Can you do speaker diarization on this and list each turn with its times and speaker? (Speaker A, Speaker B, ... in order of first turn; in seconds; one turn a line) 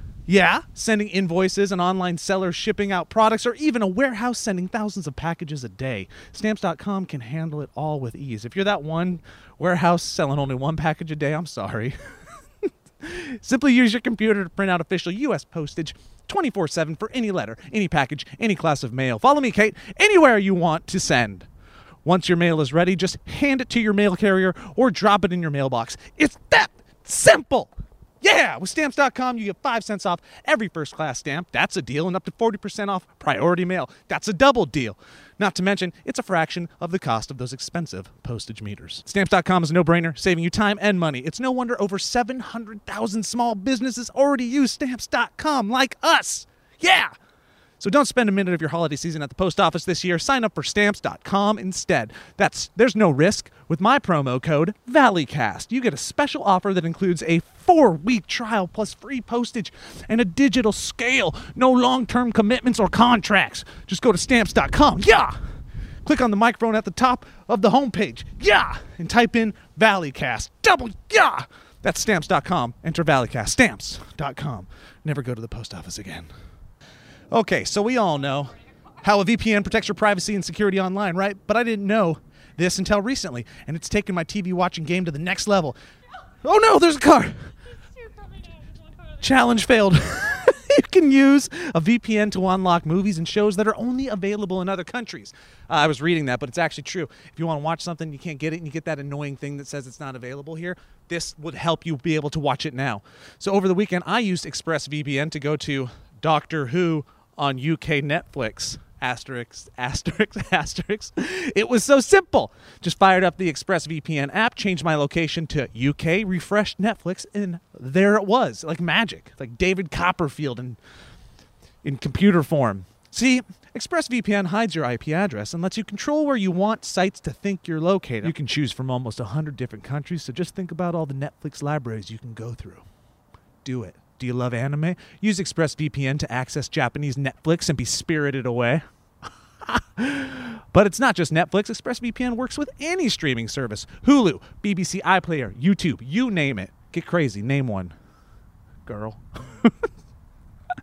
Speaker A: 0.3-12.0
Speaker A: 12.6-21.5
Speaker A: 22.0-47.1
Speaker A: 47.8-65.3
Speaker A: 66.0-76.3
Speaker A: 77.3-85.8
Speaker A: 86.4-87.5
Speaker A: 89.2-120.8
Speaker A: 121.8-132.8
Speaker A: 133.6-138.8
Speaker A: 139.6-147.9
Speaker A: 148.9-149.9